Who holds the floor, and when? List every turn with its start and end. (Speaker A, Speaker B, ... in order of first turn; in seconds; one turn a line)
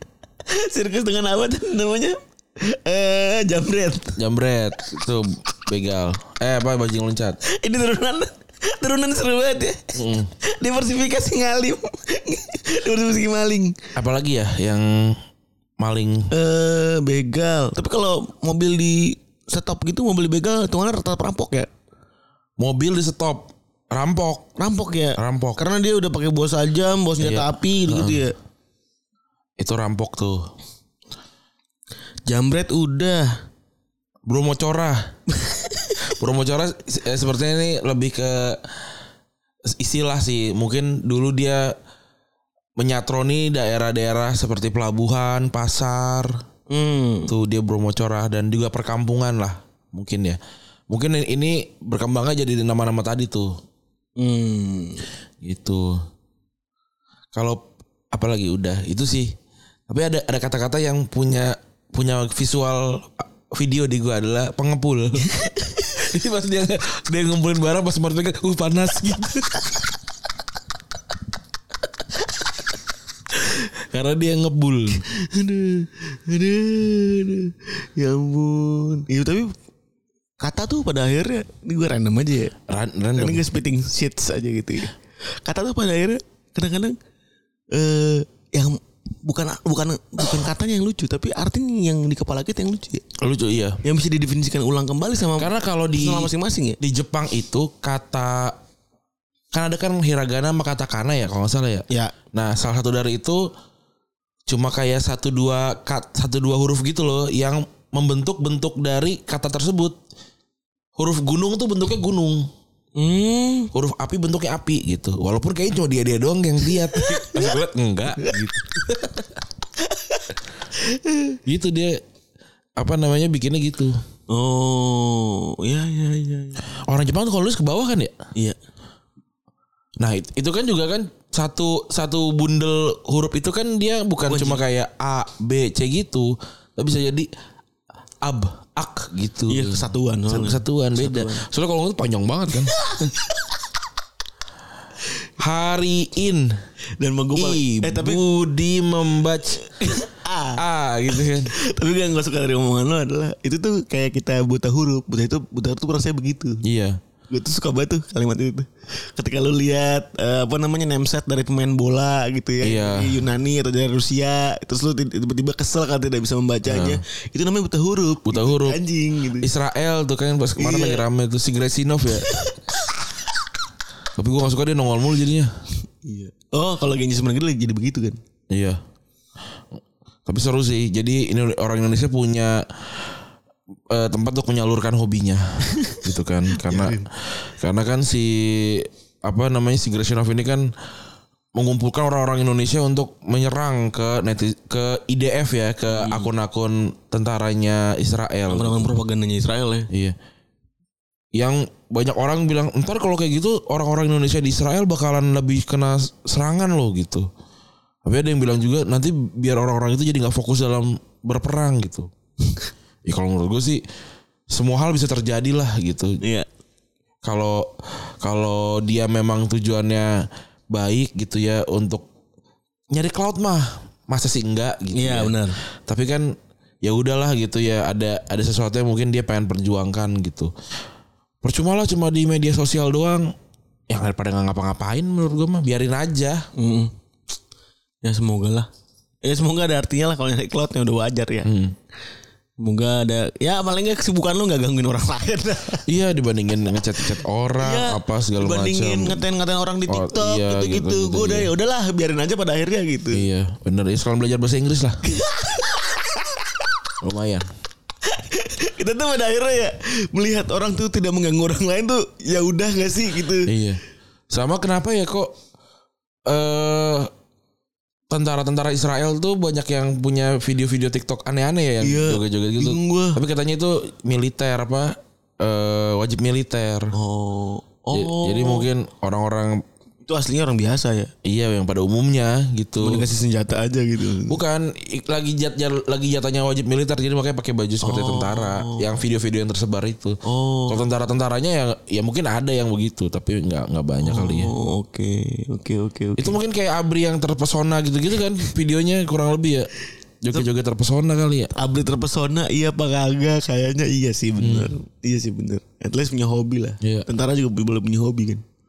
Speaker A: 0.5-4.2
Speaker B: 4.2-7.4
Speaker A: 7.5-13.8
Speaker B: 9.9-10.3
Speaker B: 13.9-15.2
Speaker B: 15.8-16.3
Speaker A: 16.3-21.7
Speaker B: 22.6-24.5
Speaker A: 24.6-28.4
Speaker B: 25.2-25.6
Speaker B: 27.2-28.2
Speaker B: 29.6-30.5
Speaker A: 32.3-33.4
Speaker B: 34.3-35.1
Speaker A: 35.4-35.9
Speaker B: 36.1-38.7
Speaker B: 39.7-41.8
Speaker B: 42.8-46.4
Speaker A: 46.7-47.3
Speaker B: 47.3-53.6
Speaker A: 54.2-55.0
Speaker B: 55.4-56.0
Speaker B: 57.3-59.4
Speaker B: 59.9-69.8
Speaker B: 73.8-75.0
Speaker A: 75.0-79.5
Speaker A: 80.4-82.5
Speaker B: 82.7-83.4
Speaker A: 83.2-87.0
Speaker A: 87.7-93.0
Speaker B: 93.2-93.8
Speaker A: 93.8-96.8
Speaker B: 95.4-98.6
Speaker B: 99.5-103.5
Speaker B: 104.5-110.0
Speaker B: 111.0-112.5
Speaker A: 113.0-113.7
Speaker B: 113.7-119.2
Speaker A: 116.9-117.5
Speaker A: 119.9-120.2
Speaker A: 120.8-121.4
Speaker B: 121.5-122.0
Speaker B: 122.8-124.0
Speaker A: 124.3-126.6
Speaker B: 126.9-128.1
Speaker B: 130.0-137.3
Speaker A: 134.3-134.6
Speaker B: 138.2-142.8
Speaker A: 139.5-141.4
Speaker A: 142.8-143.5
Speaker B: 145.4-146.5
Speaker A: 147.0-148.2
Speaker B: 147.3-149.6
Speaker A: 149.7-156.6
Speaker B: 150.6-151.5
Speaker B: 156.6-157.0
Speaker A: 157.3-169.5
Speaker B: 162.6-163.2
Speaker B: 166.7-167.0
Speaker B: 168.2-168.8
Speaker B: 169.4-172.3
Speaker A: 170.6-171.1
Speaker A: 172.2-172.7
Speaker B: 174.2-175.5
Speaker A: 176.0-178.2
Speaker B: 178.5-178.8
Speaker B: 180.3-183.0
Speaker B: 183.9-190.7
Speaker A: 185.8-186.0
Speaker A: 186.6-187.1
Speaker B: 191.6-199.0
Speaker A: 195.9-196.3
Speaker A: 198.5-199.9
Speaker B: 199.9-200.2
Speaker B: 201.3-207.3
Speaker B: 208.0-212.1
Speaker B: 213.1-213.8
Speaker B: 214.5-216.2
Speaker A: 216.2-216.5
Speaker B: 217.2-222.1
Speaker B: 222.9-230.5
Speaker A: 224.9-225.6
Speaker B: 231.4-233.3
Speaker B: 233.9-236.5
Speaker A: 236.6-236.9
Speaker A: 238.0-238.7
Speaker A: 239.2-241.5
Speaker B: 241.4-241.8
Speaker A: 242.6-245.9
Speaker B: 245.9-249.2
Speaker A: 247.0-253.2
Speaker B: 249.9-251.5
Speaker B: 253.1-255.0
Speaker A: 255.0-256.6
Speaker B: 257.0-257.5
Speaker A: 258.1-263.5
Speaker B: 263.4-265.4
Speaker B: 266.3-267.1
Speaker B: 268.1-276.9
Speaker A: 271.8-273.2
Speaker A: 276.9-278.7
Speaker B: 277.9-279.6
Speaker A: 280.1-281.1
Speaker B: 281.2-283.0
Speaker A: 282.8-284.4
Speaker B: 284.3-294.5
Speaker A: 287.8-288.9
Speaker A: 290.2-290.8
Speaker A: 294.0-296.4
Speaker B: 296.2-299.7
Speaker B: 300.2-301.5
Speaker A: 301.6-308.4
Speaker B: 304.4-304.7
Speaker B: 306.8-307.1